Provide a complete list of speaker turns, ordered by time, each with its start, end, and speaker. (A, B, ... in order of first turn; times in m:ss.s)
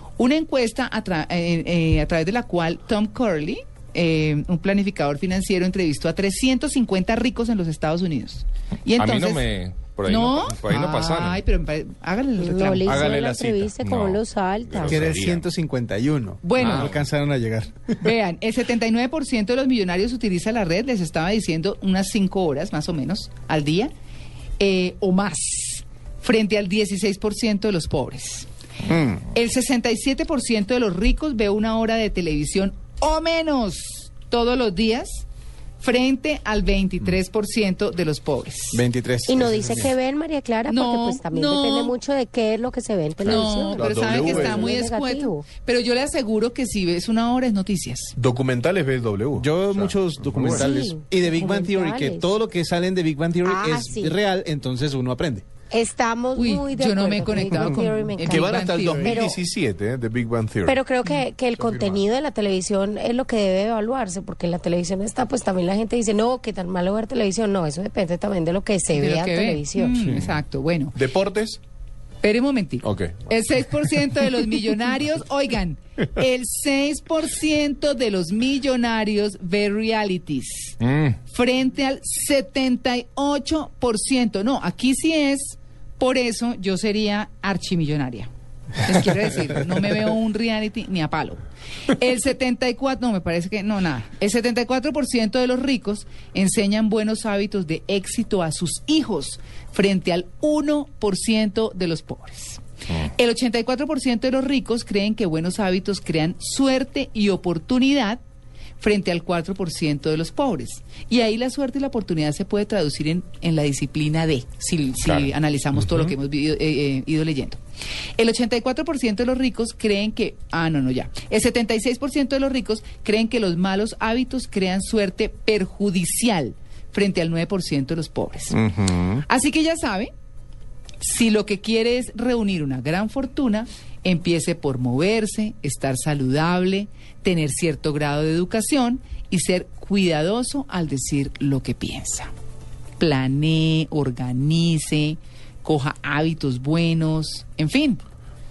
0:00.2-0:09.4 A
0:08.9-0:11.4 B
0:10.0-0:13.2 A
0:12.4-0:15.1 C
0:12.8-0:13.8 D
0:13.8-0:15.5 B
0:14.8-0:18.1 E
0:16.4-0:16.9 A
0:16.6-0:17.0 B
0:18.0-0:23.9 A
0:24.6-0:28.5 A
0:28.9-0:29.2 E
0:29.3-0:35.2 A
0:35.8-0:38.8 A
0:38.7-0:39.9 E
0:39.3-0:45.4 C
0:40.7-0:41.9 A
0:43.2-0:48.1 A
0:43.8-0:44.8 D
0:48.2-0:50.7 D
0:49.4-0:55.5 E
0:50.5-0:52.3 C
0:53.4-0:54.2 C
0:55.7-0:59.4 C
0:56.3-0:59.2 A
0:58.2-1:00.8 D
1:00.6-1:10.0 C
1:01.6-1:02.0 E
1:08.9-1:10.9 A
1:10.0-1:10.3 E
1:11.0-1:11.6 D
1:12.2-1:28.3 A
1:12.8-1:13.3 D
1:20.8-1:21.1 B
1:28.8-1:48.2 A
1:48.8-1:57.6 A
1:55.0-1:55.3 D
1:58.2-2:08.6 A
2:08.5-2:09.2 E
2:09.2-2:10.1 A
2:11.0-2:22.3 A
2:23.0-2:28.0 A